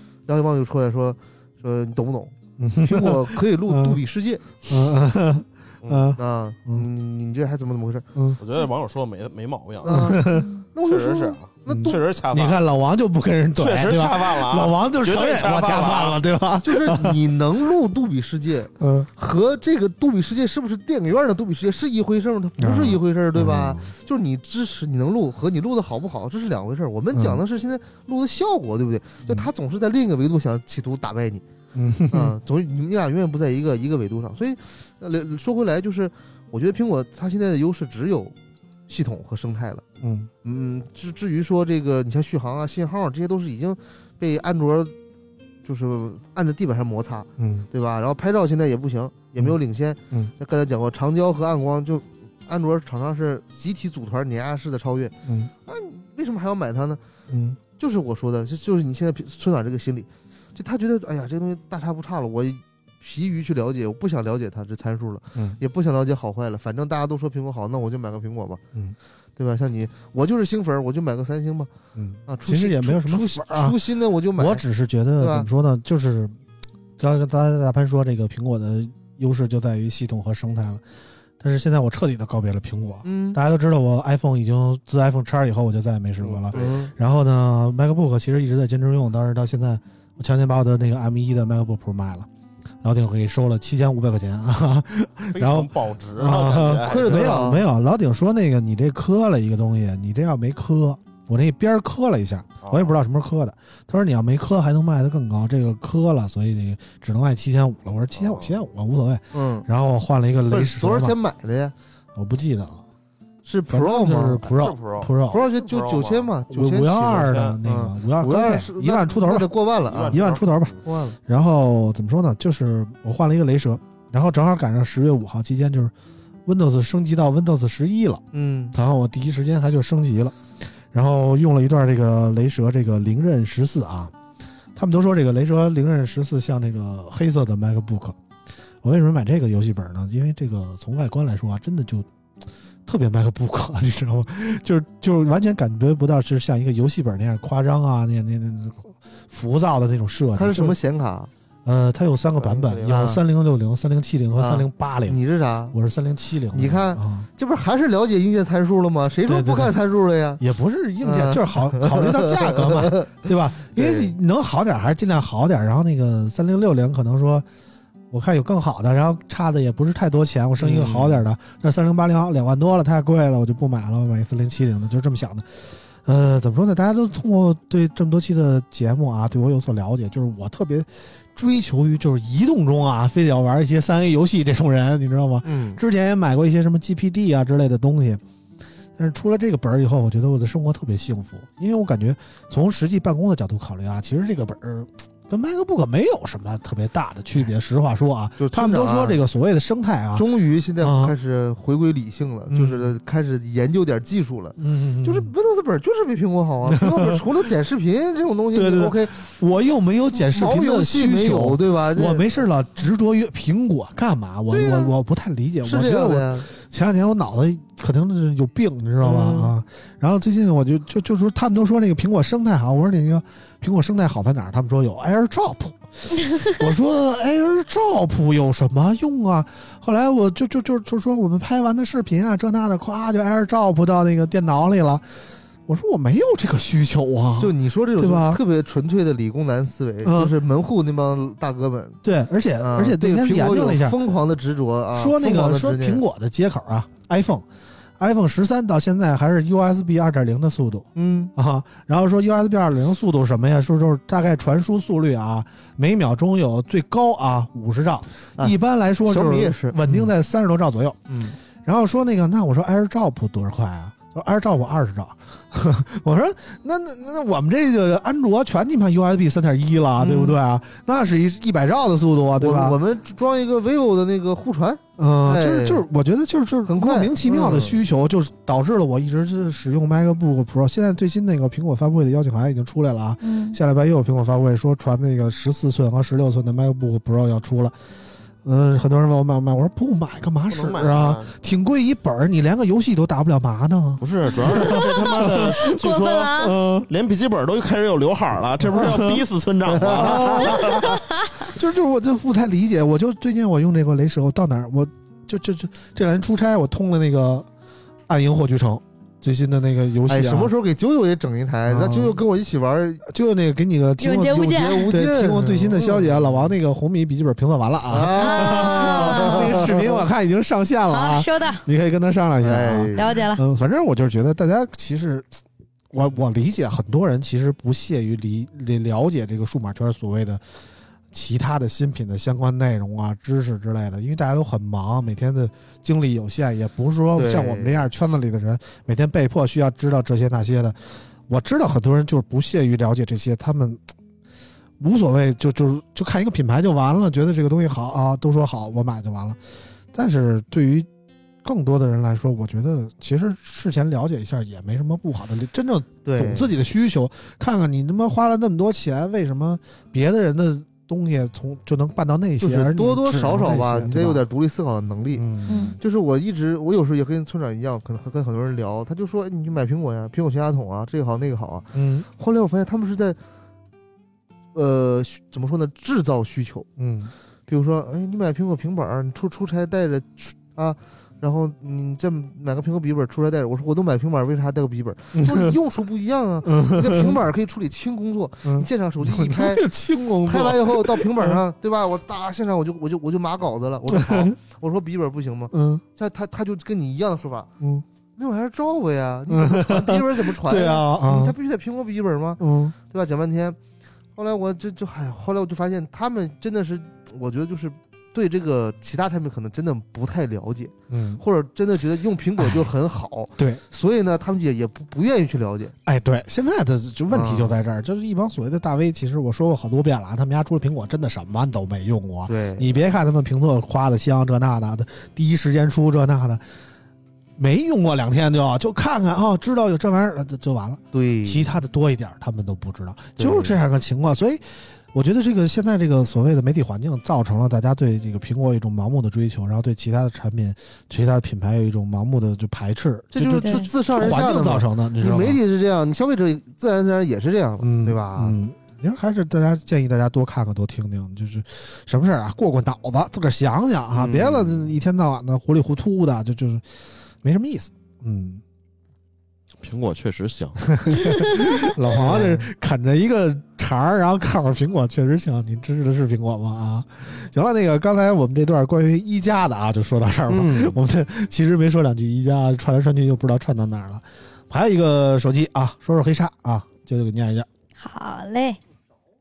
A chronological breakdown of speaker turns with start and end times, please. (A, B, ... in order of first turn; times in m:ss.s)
0:00.3-0:04.4 A
0:02.6-0:04.0 B
0:04.6-0:06.9 B
0:05.8-0:06.1 C
0:06.2-0:08.1 A
0:08.2-0:08.4 B
0:08.4-0:10.2 C
0:09.8-0:12.0 A
0:09.9-0:10.5 B
0:10.3-0:10.6 D
0:10.8-0:12.6 C
0:11.7-0:17.2 B
0:13.6-0:16.2 C
0:16.6-0:31.4 A
0:18.8-0:19.1 B
0:22.6-0:23.9 B
0:27.1-0:27.4 B
0:31.8-0:32.4 B
0:32.1-0:38.4 A
0:38.9-0:39.8 A
0:40.0-0:40.3 B
0:40.4-0:44.9 A
0:45.6-0:55.2 A
0:47.4-0:47.7 B
0:55.3-0:55.5 B
0:55.7-0:57.0 A
0:57.3-0:57.6 B
0:57.7-1:08.6 A
1:09.4-1:11.7 A
1:12.0-1:13.8 B
1:12.3-1:14.6 A
1:14.4-1:16.4 B
1:15.2-1:15.5 A
1:17.0-1:20.8 B
1:21.4-1:32.3 B
1:23.0-1:23.4 A
1:26.2-1:26.8 C
1:26.5-1:26.9 A
1:32.8-1:51.2 B
1:35.3-1:37.5 C
1:36.8-1:37.6 A
1:42.6-1:43.0 C
1:48.2-1:48.6 C
1:49.3-1:49.7 A
1:50.5-1:51.7 A
1:52.2-1:52.8 B
1:53.4-1:54.5 A
1:53.7-1:55.5 B
1:54.5-1:56.3 C
1:55.3-2:00.2 A
1:56.5-1:59.5 B
1:57.1-1:57.6 C
1:59.9-2:00.8 C
2:00.1-2:05.9 B
2:00.8-2:01.2 A
2:06.5-2:10.4 B
2:08.3-2:08.8 A
2:10.9-2:14.1 B
2:14.8-2:18.2 B
2:18.8-2:22.1 B
2:22.9-2:30.8 B
2:30.4-2:31.3 A
2:31.6-2:37.3 B
2:32.4-2:33.2 A
2:34.4-2:35.8 A
2:36.5-2:40.4 A
2:39.2-2:39.8 B
2:40.4-2:47.5 B
2:41.0-2:43.2 A
2:43.7-2:44.1 A
2:48.1-3:08.2 B
2:50.6-2:51.2 A
3:05.4-3:05.8 A
3:09.0-3:20.3 B
3:18.4-3:19.2 A
3:20.2-3:29.2 A
3:20.8-3:21.1 B
3:22.5-3:22.9 B
3:24.6-3:25.3 B
3:26.7-3:27.2 B
3:28.5-3:55.1 B
3:30.2-3:32.3 A
3:34.5-3:34.9 A
3:35.6-3:36.5 A
3:39.0-3:39.5 A
3:55.7-3:58.4 B
3:57.4-4:02.0 A
4:00.0-4:00.4 B
4:02.0-4:04.0 B
4:02.6-4:06.0 A
4:04.9-4:07.5 B
4:08.0-4:21.1 B
4:11.0-4:11.3 A
4:19.1-4:20.1 A
4:21.1-4:21.4 A
4:21.6-4:32.8 B
4:30.0-4:30.4 A
4:32.4-4:35.8 A
4:35.0-4:47.8 B
4:36.7-4:37.8 A
4:43.2-4:43.6 D
4:48.4-4:56.9 B
4:50.5-4:51.3 C
4:54.0-5:01.0 C
4:54.5-4:56.6 D
4:58.6-4:59.3 B
4:59.7-5:00.4 A
4:59.8-5:07.5 B
5:00.6-5:01.4 D
5:08.1-5:10.5 B
5:10.1-5:13.0 A
5:11.7-5:12.2 B
5:13.0-5:25.3 B
5:14.0-5:14.9 D
5:14.4-5:16.5 A
5:17.9-5:20.0 A
5:18.2-5:19.6 D
5:20.9-5:21.6 D
5:22.4-5:23.2 A
5:23.0-5:23.4 D
5:25.9-5:30.4 B
5:31.1-5:43.8 B
5:37.2-5:37.8 A
5:44.8-5:49.4 B
5:49.9-5:50.9 B
5:51.4-6:04.2 B
5:56.0-5:56.5 A
6:02.4-6:05.3 A
6:05.1-6:05.8 B
6:05.5-6:05.8 D
6:05.8-6:13.2 A
6:11.7-6:12.1 B
6:14.5-6:16.7 A
6:16.8-6:17.1 B
6:17.5-6:37.5 A
6:25.2-6:25.6 B
6:26.4-6:27.2 B
6:28.4-6:31.4 B
6:33.9-6:34.4 B
6:35.5-6:35.8 B
6:37.6-6:37.8 B
6:38.2-6:43.6 A
6:39.3-6:41.4 B
6:42.4-6:42.8 B
6:44.2-6:55.8 A
6:50.9-6:51.2 B
6:52.4-6:52.7 B
6:53.4-6:53.6 B
6:55.8-7:06.4 B
6:57.1-6:57.5 A
7:02.3-7:02.8 A
7:07.4-7:25.4 B
7:10.9-7:11.5 A
7:13.2-7:13.6 A
7:23.1-7:28.4 A
7:23.4-7:23.7 D
7:27.6-7:36.7 B
7:33.9-7:34.7 A
7:37.2-7:38.4 B
7:39.6-7:41.1 C
7:40.7-7:57.5 B
7:41.3-7:41.6 D
7:41.9-7:42.4 A
7:50.3-7:50.8 A
7:57.8-7:58.6 D